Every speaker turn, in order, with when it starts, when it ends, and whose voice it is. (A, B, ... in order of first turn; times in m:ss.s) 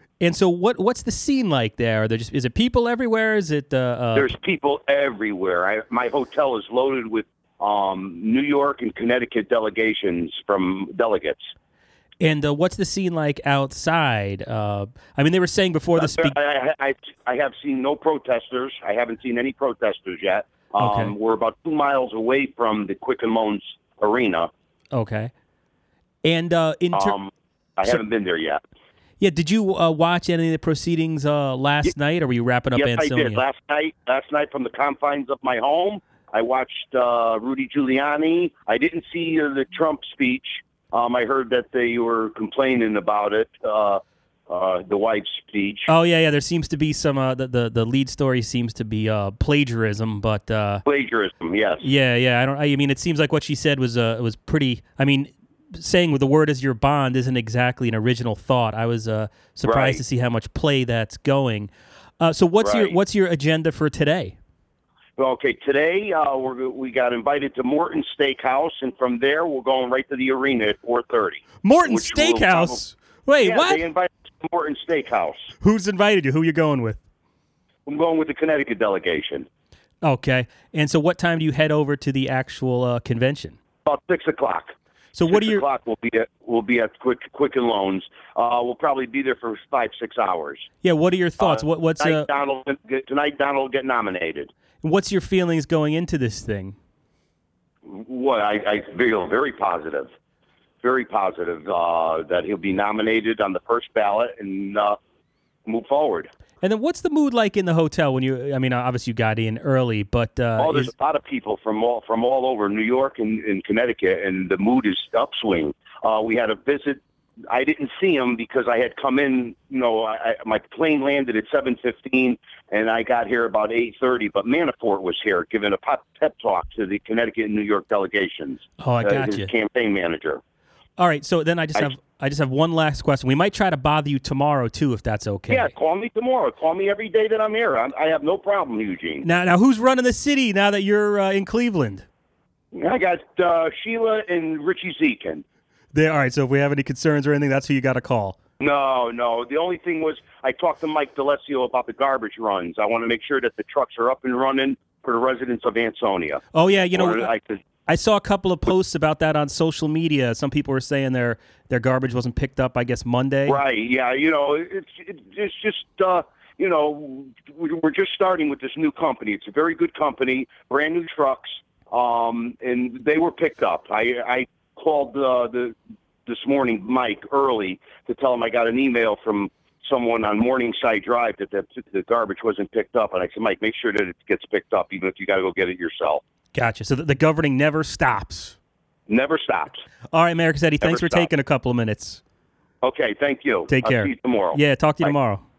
0:00.2-0:04.3 A
0:04.2-0:11.4 B
0:12.2-0:16.3 A
0:16.0-0:24.5 B
0:20.8-0:21.1 A
0:24.9-0:25.3 A
0:26.2-0:27.1 A
0:26.9-0:28.6 B
0:29.2-0:33.4 A
0:32.7-0:45.9 B
0:45.9-0:50.8 A
0:50.8-0:51.8 B
0:51.8-1:04.4 A
0:59.6-1:00.0 B
1:02.6-1:03.0 B
1:05.2-1:12.8 B
1:11.6-1:13.8 A
1:13.4-1:15.5 B
1:15.6-1:17.0 A
1:17.8-1:19.5 B
1:20.0-1:23.6 A
1:23.8-1:24.7 B
1:25.1-1:25.6 A
1:25.3-1:30.7 B
1:30.8-1:32.3 A
1:31.4-1:34.5 B
1:34.8-1:36.7 A
1:37.9-1:40.1 B
1:40.8-1:45.0 B
1:45.6-1:46.3 B
1:46.6-1:50.9 A
1:50.6-2:10.4 B
2:08.8-2:09.5 A
2:11.0-2:15.7 A
2:15.5-2:19.3 B
2:19.2-2:22.0 A
2:22.7-2:25.4 B
2:25.9-2:28.4 A
2:28.6-2:37.6 B
2:36.5-2:37.3 A
2:37.8-2:43.6 A
2:43.5-3:06.2 B
3:06.5-3:08.6 A
3:09.1-3:09.8 B
3:10.1-3:12.2 A
3:10.8-3:11.3 B
3:12.8-3:15.1 B
3:13.7-3:15.4 A